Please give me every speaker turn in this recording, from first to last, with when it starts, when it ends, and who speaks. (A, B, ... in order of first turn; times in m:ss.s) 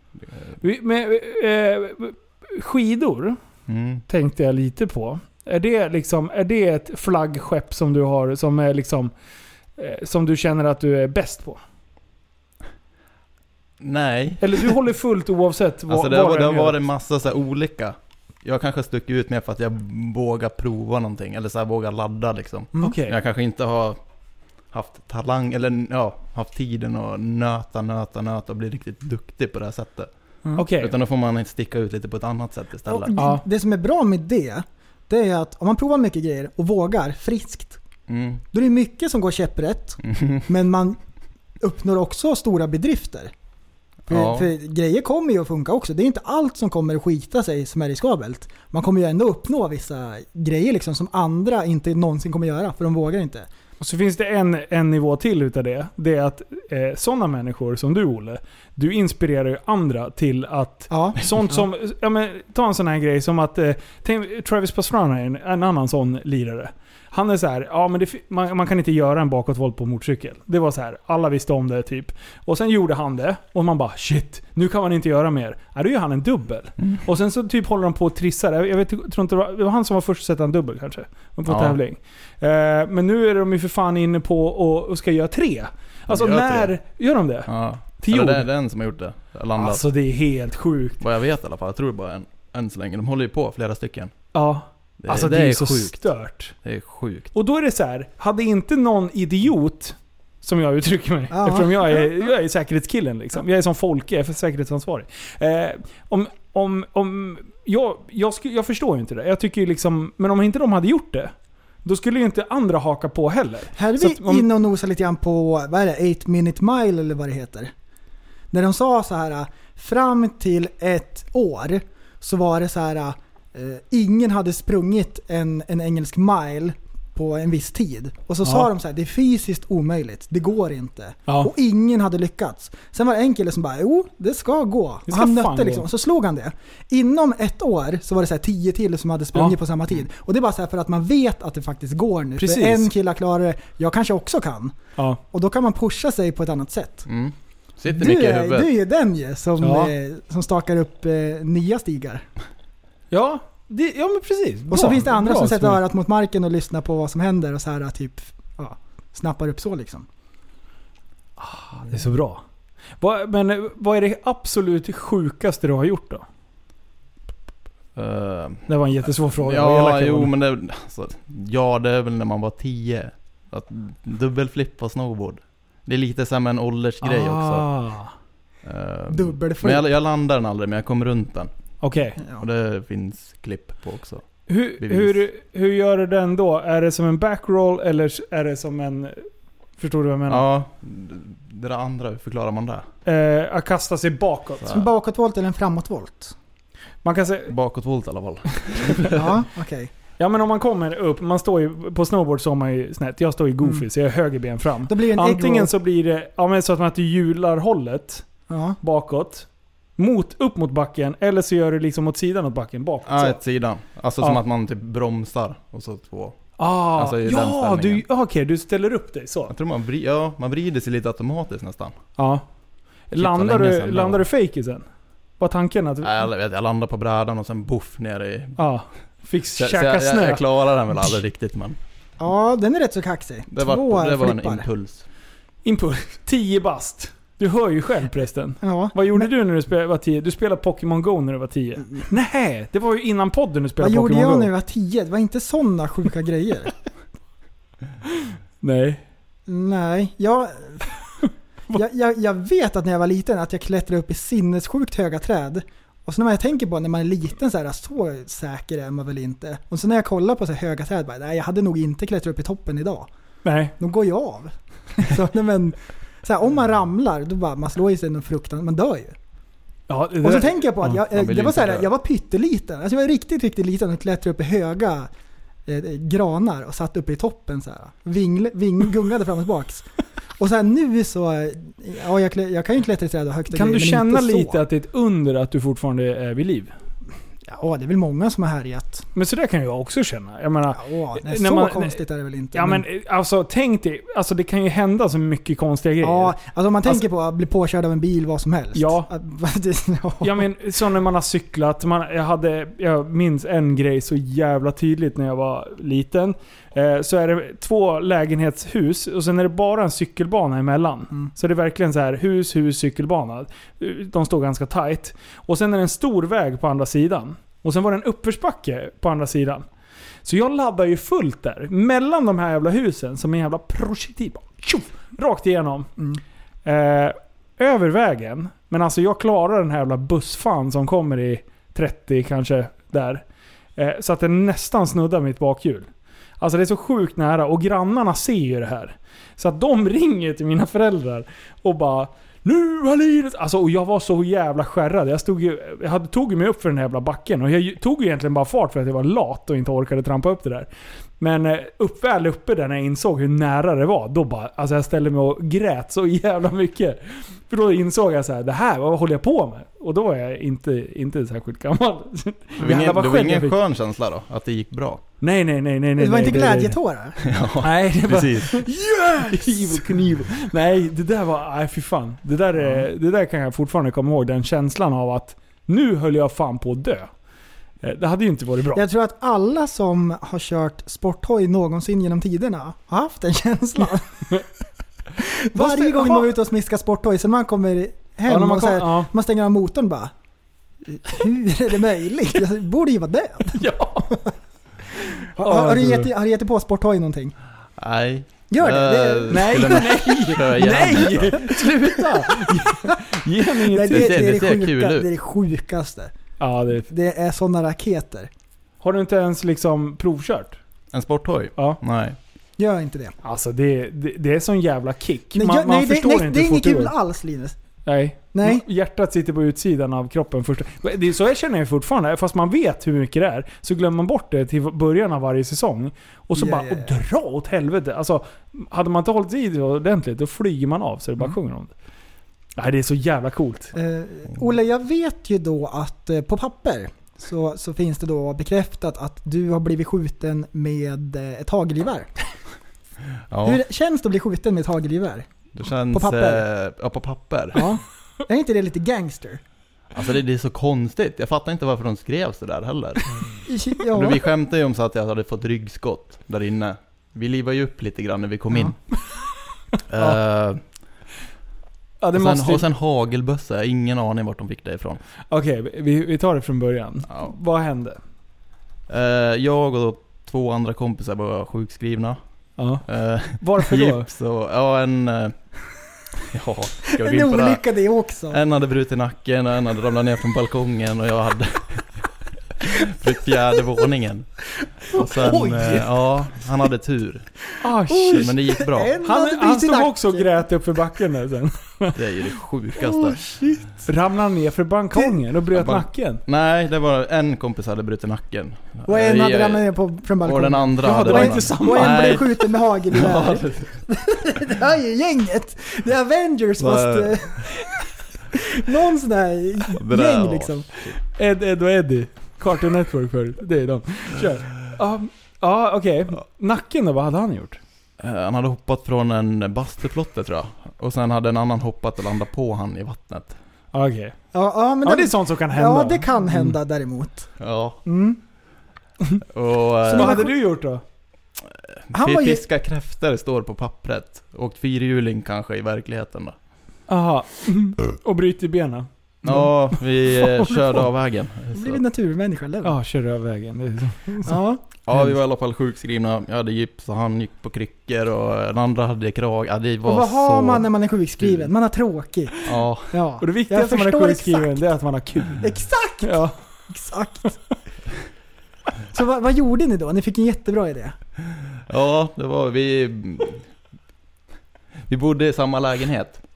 0:00.6-0:03.4 A
0:03.7-0:04.0 B
0:04.1-0:09.1 A
0:09.8-0:11.6 A
0:13.8-0:14.8 B
0:14.4-0:16.8 A
0:15.9-0:24.0 B
0:22.8-0:23.2 A
0:24.7-0:30.1 B
0:30.6-0:30.9 A
0:30.8-0:33.1 B
0:32.9-0:37.8 C
0:33.2-0:33.4 A
0:38.1-0:38.4 B
0:38.5-0:41.0 C
0:40.0-0:40.4 B
0:41.6-0:43.3 C
0:44.1-0:53.5 C
0:44.1-0:44.5 B
0:53.8-1:27.5 A
1:00.9-1:01.6 C
1:21.5-1:21.8 B
1:26.1-1:26.7 B
1:27.5-1:29.8 B
1:28.0-1:28.5 A
1:29.6-1:31.0 A
1:31.0-1:34.1 B
1:34.3-1:36.5 A
1:35.0-1:36.0 B
1:36.6-1:37.3 B
1:37.3-1:51.3 A
1:41.3-1:42.1 C
1:51.8-1:54.5 A
1:53.8-1:57.7 C
1:58.5-2:24.8 C
2:08.4-2:08.7 A
2:15.1-2:15.9 A
2:22.4-2:22.9 A
2:25.3-2:27.1 C
2:27.1-2:28.7 B
2:27.9-2:32.2 C
2:29.6-2:29.9 A
2:33.1-2:35.8 A
2:34.7-2:40.1 C
2:41.4-2:42.4 A
2:43.0-2:46.2 A
2:48.0-2:57.7 B
2:48.7-2:50.3 A
2:57.0-2:58.1 A
2:58.6-3:01.5 B
2:59.1-2:59.9 C
3:01.8-3:02.2 A
3:02.4-3:04.2 B
3:04.5-3:09.3 A
3:04.8-3:05.2 B
3:09.8-3:10.4 A
3:10.3-3:12.9 B
3:13.1-3:14.7 A
3:14.7-3:16.4 C
3:17.0-3:17.5 A
3:17.5-3:19.4 B
3:19.1-3:19.9 C
3:20.2-3:28.3 A
3:24.9-3:25.7 C
3:28.5-3:28.8 C
3:28.8-3:33.4 A
3:33.1-3:36.4 B
3:36.6-3:39.5 A
3:36.9-3:38.0 B
3:39.5-3:42.0 B
3:42.2-3:42.4 A
3:43.1-3:44.8 A
3:43.2-3:44.3 B
3:45.4-3:46.1 A
3:46.0-3:48.6 B
3:48.6-3:50.4 A
3:49.6-3:51.8 B
3:52.2-3:54.7 C
3:53.5-3:55.0 B
3:55.6-4:04.5 A
3:58.6-3:59.3 C
4:03.8-4:06.7 C
4:08.1-4:09.0 A
4:09.5-4:10.9 C
4:11.7-4:23.1 C
4:23.4-4:23.7 A
4:23.8-4:29.2 C
4:29.9-4:30.9 A
4:30.2-4:35.1 C
4:31.0-4:31.9 B
4:35.7-4:39.9 C
4:40.4-4:44.6 C
4:43.5-4:46.7 A
4:47.4-4:49.1 C
4:49.2-4:52.0 A
4:50.7-4:52.8 C
4:52.5-4:57.0 A
4:56.0-5:00.5 C
4:58.8-4:59.1 A
5:00.2-5:19.6 A
5:20.2-5:25.9 A
5:26.6-5:33.2 A
5:33.8-5:35.9 A
5:36.4-5:50.7 A
5:51.2-6:03.6 A
6:02.6-6:05.0 B
6:05.2-6:06.8 A
6:06.0-6:07.2 C
6:07.2-6:08.7 B
6:07.6-6:17.1 A
6:08.8-6:09.7 C
6:17.8-6:18.8 A
6:18.7-6:24.3 C
6:25.2-6:30.1 C
6:25.5-6:26.3 A
6:28.3-6:29.1 A
6:30.8-6:34.3 C
6:33.5-6:34.2 A
6:35.1-6:36.1 A
6:35.4-6:37.4 C
6:37.8-6:41.8 B
6:38.5-6:40.0 C
6:39.3-6:44.2 A
6:40.8-6:41.2 C
6:42.0-6:46.1 C
6:43.9-6:45.1 B
6:46.4-6:46.9 A
6:46.9-6:48.3 C
6:48.8-6:50.6 A
6:50.9-6:52.2 B
6:52.6-6:53.2 C
6:53.2-6:56.9 A
6:55.3-6:57.6 C
6:57.9-7:11.7 A
6:58.3-6:58.6 C
7:06.4-7:06.9 C
7:12.6-7:13.8 A
7:13.8-7:22.3 C
7:23.3-7:23.6 B
7:23.4-7:25.3 C
7:25.6-7:27.6 B
7:25.9-7:26.4 C
7:27.6-7:29.4 C
7:29.9-7:33.1 B
7:33.5-7:34.2 C
7:33.9-7:38.8 B
7:39.9-7:40.6 B
7:42.0-7:42.6 A
7:42.2-7:45.0 B
7:45.3-7:48.0 A
7:48.9-7:52.2 B
7:52.6-7:52.8 A
7:52.9-7:55.4 B
7:53.4-7:54.1 A
7:56.2-7:57.6 B
7:56.9-7:58.4 C
7:58.3-8:01.9 B
8:02.6-8:04.3 B
8:04.9-8:07.3 B
8:05.2-8:05.9 A
8:07.6-8:08.3 A
8:07.9-8:10.3 C
8:08.1-8:08.9 B
8:09.0-8:12.0 A
8:12.0-8:13.2 B
8:12.9-8:13.7 C
8:13.8-8:16.2 A
8:15.5-8:19.7 B
8:18.9-8:27.6 C
8:20.2-8:23.8 B
8:20.8-8:22.2 A
8:26.6-8:27.4 B
8:28.3-8:30.7 C
8:29.8-8:30.9 B
8:31.1-8:37.6 A
8:38.0-8:43.4 B
8:43.7-8:44.2 A
8:44.3-8:47.3 C
8:44.8-8:46.5 A
8:47.4-8:47.8 B
8:47.9-8:48.2 C
8:49.3-8:50.3 B
8:49.8-8:50.3 C
8:49.9-8:50.8 A
8:51.9-8:56.4 B
8:51.9-8:52.4 C
8:56.9-8:59.5 A
8:59.2-9:01.8 B
9:01.5-9:02.8 C
9:02.6-9:04.4 A
9:04.2-9:04.6 C
9:04.8-9:10.7 B
9:09.8-9:14.6 C
9:11.2-9:11.5 B
9:12.4-9:12.9 B
9:13.2-9:15.5 A
9:15.4-9:17.4 C
9:16.0-9:16.4 A
9:18.9-9:21.0 C
9:21.7-9:23.4 B
9:24.9-9:26.2 B